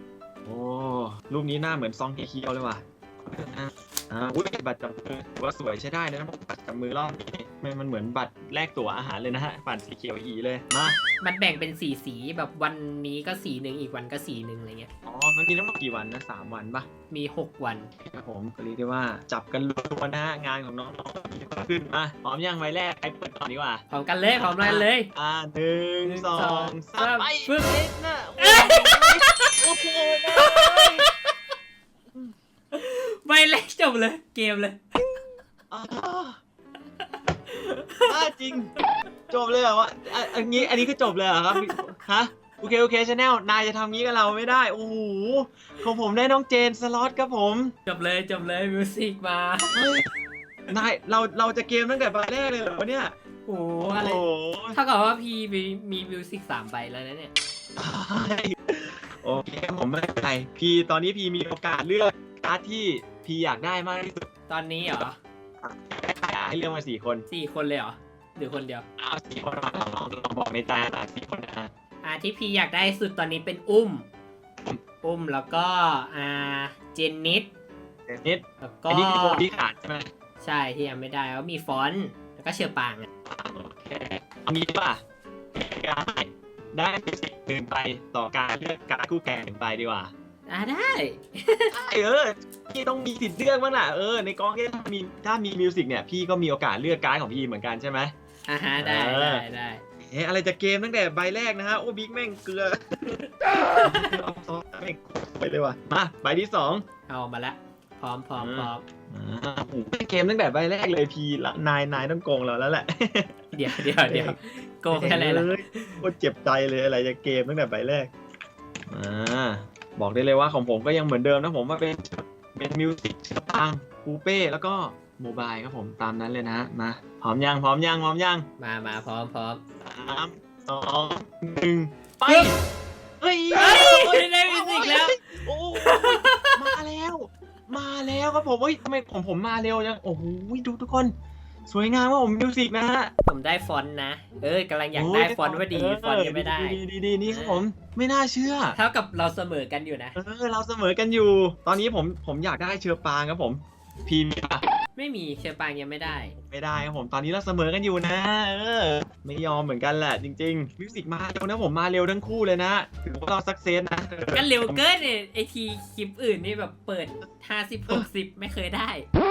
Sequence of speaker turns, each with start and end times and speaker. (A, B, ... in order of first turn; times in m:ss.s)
0:00.4-0:11.0 A
0:11.2-0:14.9 B
0:15.0-0:16.9 A
0:17.1-0:17.9 B
0:18.0-0:31.1 A
0:23.9-0:25.1 B
0:26.0-0:27.8 B
0:28.4-0:29.7 B
0:30.3-0:31.3 B
0:32.7-0:35.2 B
0:35.7-0:36.4 A
0:37.5-0:38.1 B
0:38.0-0:38.7 A
0:39.3-0:47.7 A
0:40.6-0:40.9 B
0:41.5-0:41.8 B
0:47.8-0:49.9 B
0:49.7-0:50.1 A
0:50.7-0:53.1 A
0:53.4-0:54.2 B
0:53.8-0:54.8 A
0:54.7-0:57.3 B
0:57.8-1:04.3 A
1:04.5-1:05.2 B
1:05.6-1:07.2 A
1:07.3-1:08.8 B
1:09.0-1:11.7 A
1:12.0-1:14.1 B
1:15.0-1:17.5 B
1:18.1-1:20.1 A
1:18.6-1:19.4 B
1:20.4-1:23.1 B
1:23.3-1:25.0 A
1:25.5-1:30.1 A
1:30.5-1:31.7 B
1:31.7-1:38.1 A
1:38.5-1:39.8 B
1:38.8-1:39.4 A
1:40.0-1:43.2 A
1:43.8-1:46.8 A
1:47.1-1:48.8 B
1:48.4-1:54.4 A
1:53.5-1:56.0 B
1:54.9-1:58.1 A
1:58.9-2:08.4 A
2:08.6-2:09.6 B
2:09.8-2:12.6 A
2:12.2-2:12.5 B
2:13.2-2:21.1 A
2:13.5-2:16.7 B
2:21.7-2:23.1 A
2:23.3-2:27.6 B
2:24.9-2:28.8 A
2:28.7-2:30.2 B
2:30.1-2:34.6 A
2:35.0-2:36.3 B
2:36.4-2:44.8 A
2:44.3-2:49.0 B